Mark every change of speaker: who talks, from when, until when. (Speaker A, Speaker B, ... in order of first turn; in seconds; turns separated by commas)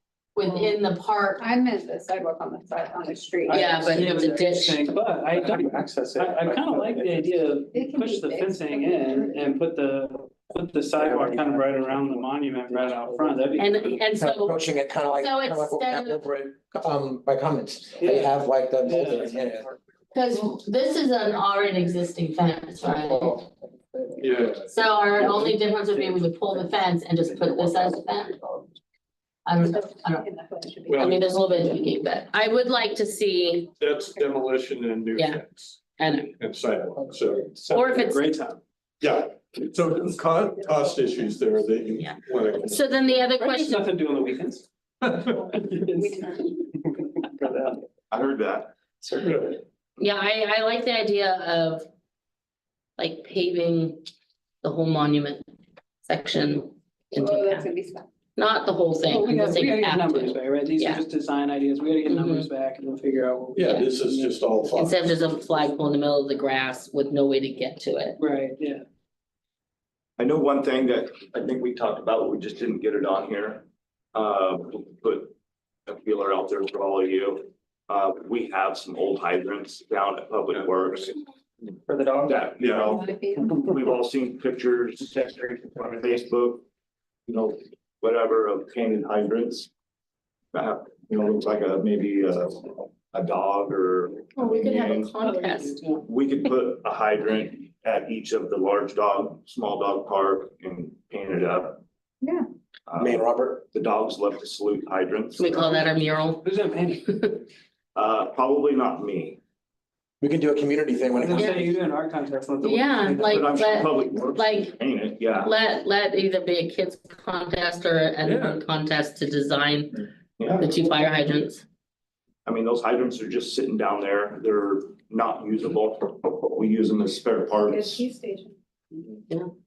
Speaker A: 0.3-1.4, Speaker B: 0.4-0.8, Speaker B: 1.4-4.5, Speaker C: 3.5-14.0, Speaker A: 3.5-4.8, Speaker D: 5.3-7.4, Speaker B: 7.7-9.6, Speaker D: 10.9-13.6, Speaker A: 13.6-14.6, Speaker E: 14.2-19.7, Speaker A: 15.2-16.2, Speaker C: 18.0-18.3, Speaker C: 18.9-19.3, Speaker A: 20.1-23.4, Speaker D: 23.1-24.1, Speaker F: 24.2-24.7, Speaker A: 24.7-28.4, Speaker C: 25.2-25.5, Speaker D: 27.5-27.8, Speaker A: 29.4-30.2, Speaker B: 30.1-31.0, Speaker F: 30.9-31.3, Speaker A: 31.0-33.7, Speaker F: 33.8-35.8, Speaker A: 35.1-35.4, Speaker A: 36.0-36.3, Speaker F: 36.4-37.6, Speaker C: 37.5-38.6, Speaker A: 37.7-38.2, Speaker F: 39.0-42.8, Speaker A: 42.0-43.9, Speaker C: 43.4-44.7, Speaker F: 45.0-45.5, Speaker C: 45.5-46.9, Speaker D: 47.4-47.7, Speaker G: 48.1-49.3, Speaker F: 49.2-49.6, Speaker A: 50.0-51.9, Speaker A: 53.0-54.0, Speaker A: 54.6-55.4, Speaker A: 56.0-57.7, Speaker B: 57.2-58.0, Speaker A: 58.4-61.0, Speaker C: 59.0-64.4, Speaker A: 62.0-62.5, Speaker F: 63.5-65.0, Speaker A: 64.7-68.2, Speaker C: 68.2-68.8, Speaker G: 70.2-75.3, Speaker G: 75.8-81.2, Speaker D: 81.8-82.6, Speaker G: 82.2-86.7, Speaker F: 82.6-83.0, Speaker B: 82.9-83.7, Speaker G: 87.2-89.7, Speaker G: 90.5-95.2, Speaker A: 94.3-95.8, Speaker C: 95.2-96.0, Speaker G: 96.0-101.8, Speaker G: 102.9-105.7, Speaker E: 103.0-103.6, Speaker A: 105.4-107.4, Speaker C: 106.4-107.3, Speaker G: 107.9-109.4, Speaker E: 110.2-111.7, Speaker C: 111.2-113.4, Speaker A: 111.3-111.7, Speaker A: 112.6-114.8, Speaker G: 113.1-115.5, Speaker A: 115.4-121.6, Speaker F: 118.2-118.6, Speaker G: 120.4-120.7, Speaker G: 122.4-128.1, Speaker B: 127.7-128.5